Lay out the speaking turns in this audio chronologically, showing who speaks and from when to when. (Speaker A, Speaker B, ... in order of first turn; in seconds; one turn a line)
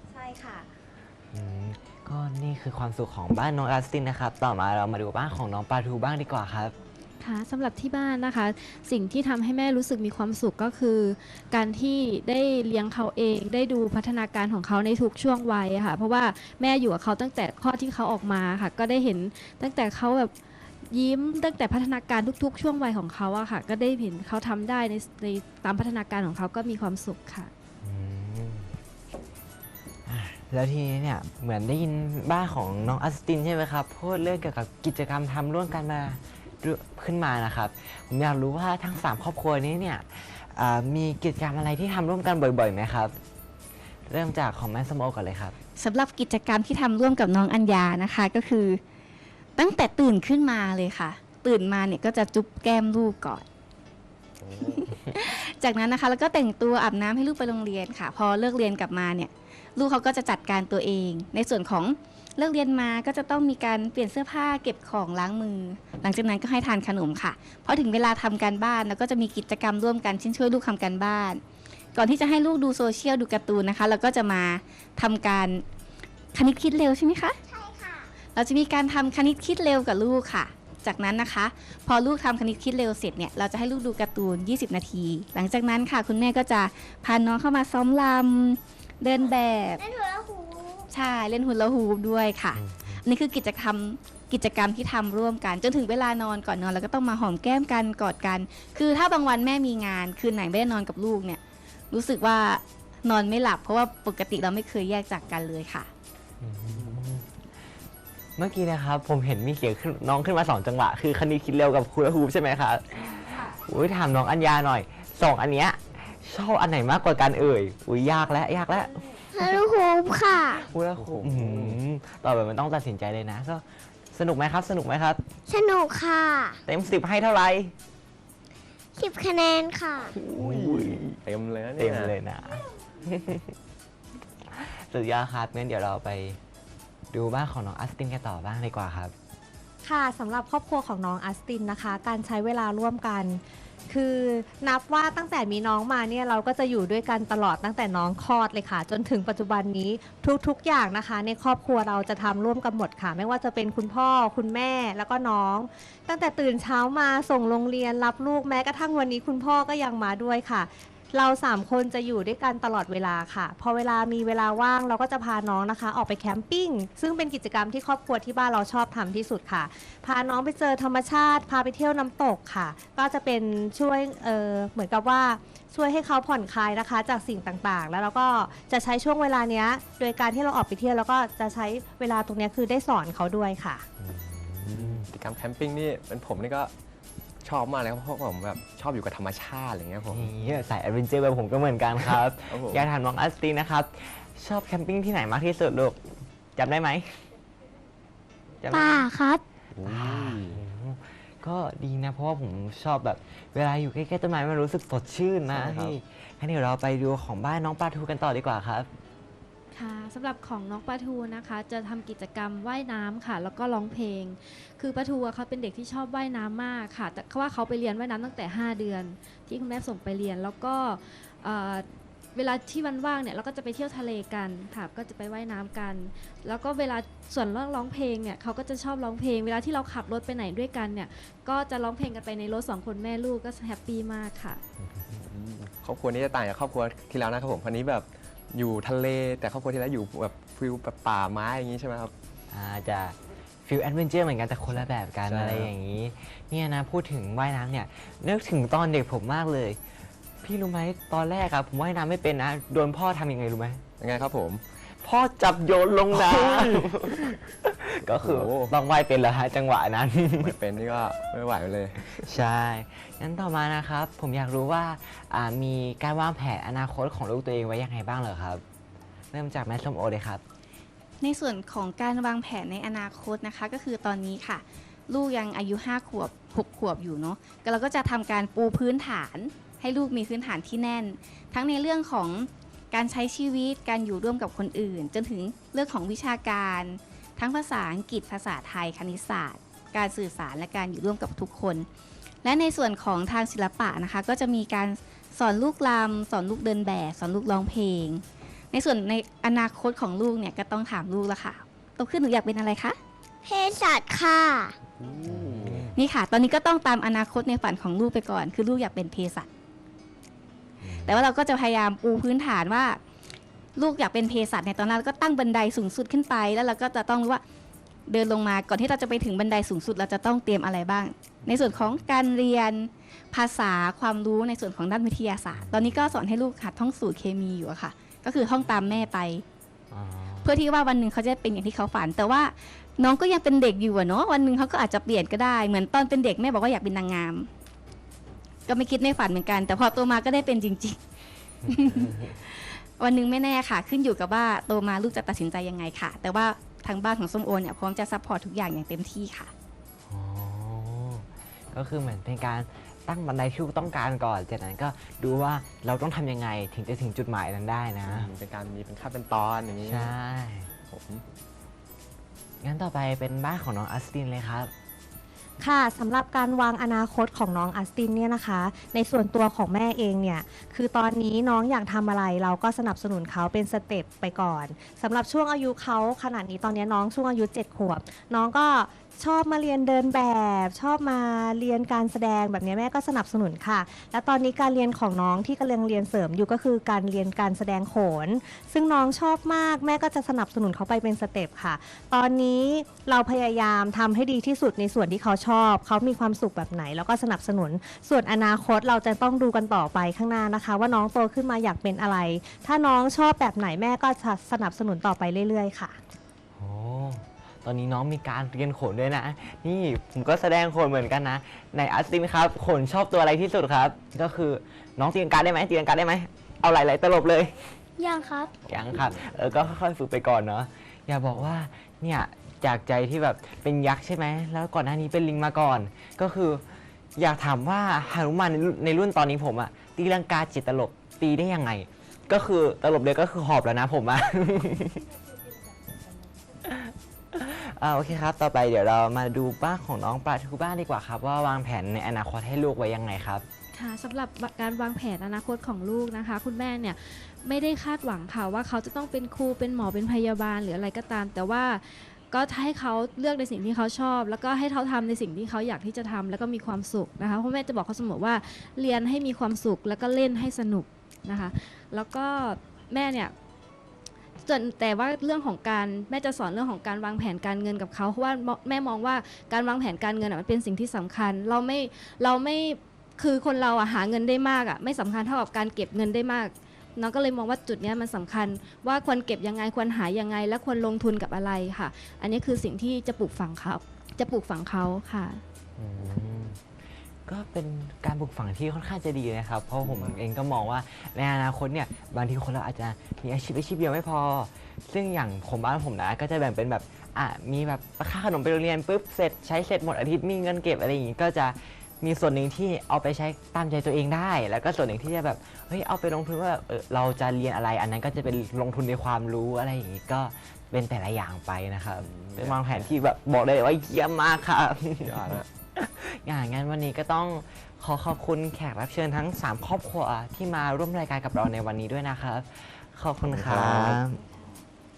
Speaker A: 0.1-0.7
Speaker B: 1.3-6.8
Speaker C: 7.2-20.3
Speaker C: 20.9-27.5
Speaker B: 27.8-28.7
Speaker B: 30.1-43.2
Speaker B: 44.1-45.6
Speaker D: 45.8-48.8
Speaker D: 49.6-53.5
Speaker D: 54.5-71.4
Speaker D: 72.0-75.6
Speaker D: 76.3-77.4
Speaker E: 77.5-78.1
Speaker D: 78.3-89.8
Speaker E: 89.8-90.9
Speaker D: 90.9-101.4
Speaker B: 92.5-93.0
Speaker D: 101.9-105.9
Speaker B: 106.4-107.3
Speaker B: 108.4-119.6
Speaker E: 119.3-120.6
Speaker B: 120.5-125.2
Speaker F: 121.0-121.8
Speaker E: 125.5-126.6
Speaker B: 126.7-127.7
Speaker E: 129.0-130.2
Speaker B: 130.1-131.2
Speaker F: 130.4-132.1
Speaker B: 131.8-133.6
Speaker B: 134.5-136.4
Speaker B: 137.1-139.1
Speaker A: 139.8-183.8
Speaker B: 184.0-185.1
Speaker F: 184.7-186.7
Speaker F: 187.4-190.3
Speaker B: 190.1-196.0
Speaker F: 192.5-192.9
Speaker B: 196.6-197.3
Speaker B: 198.6-199.1
Speaker E: 198.7-199.4
Speaker F: 199.8-200.6
Speaker B: 199.8-208.9
Speaker F: 205.5-206.0
Speaker C: 209.7-234.6
Speaker F: 235.2-242.1
Speaker B: 242.5-249.8
Speaker F: 245.3-245.7
Speaker B: 250.4-253.8
Speaker F: 254.0-254.6
Speaker B: 254.8-260.6
Speaker F: 256.1-256.9
Speaker F: 258.1-258.7
Speaker F: 260.4-262.2
Speaker B: 262.0-268.6
Speaker B: 269.3-270.4
Speaker D: 271.2-291.9
Speaker D: 292.4-303.0
Speaker E: 303.4-304.8
Speaker F: 305.0-305.8
Speaker B: 305.2-306.0
Speaker D: 305.9-309.5
Speaker B: 310.8-311.2
Speaker D: 311.0-313.0
Speaker D: 313.8-317.4
Speaker D: 318.1-329.4
Speaker B: 325.8-326.1
Speaker B: 329.9-330.6
Speaker D: 330.4-337.5
Speaker D: 338.7-341.0
Speaker B: 341.6-342.4
Speaker D: 341.7-349.5
Speaker B: 350.1-358.3
Speaker F: 358.1-360.1
Speaker B: 359.9-360.7
Speaker F: 360.9-361.2
Speaker B: 362.6-364.7
Speaker A: 365.6-406.0
Speaker B: 406.6-417.7
Speaker E: 418.0-418.6
Speaker F: 418.6-419.2
Speaker B: 418.7-426.6
Speaker B: 427.2-435.1
Speaker B: 436.6-443.4
Speaker C: 443.7-463.3
Speaker C: 464.4-485.4
Speaker B: 485.8-486.6
Speaker B: 487.3-524.2
Speaker F: 489.8-490.2
Speaker F: 512.0-513.0
Speaker F: 515.0-515.5
Speaker F: 523.3-524.0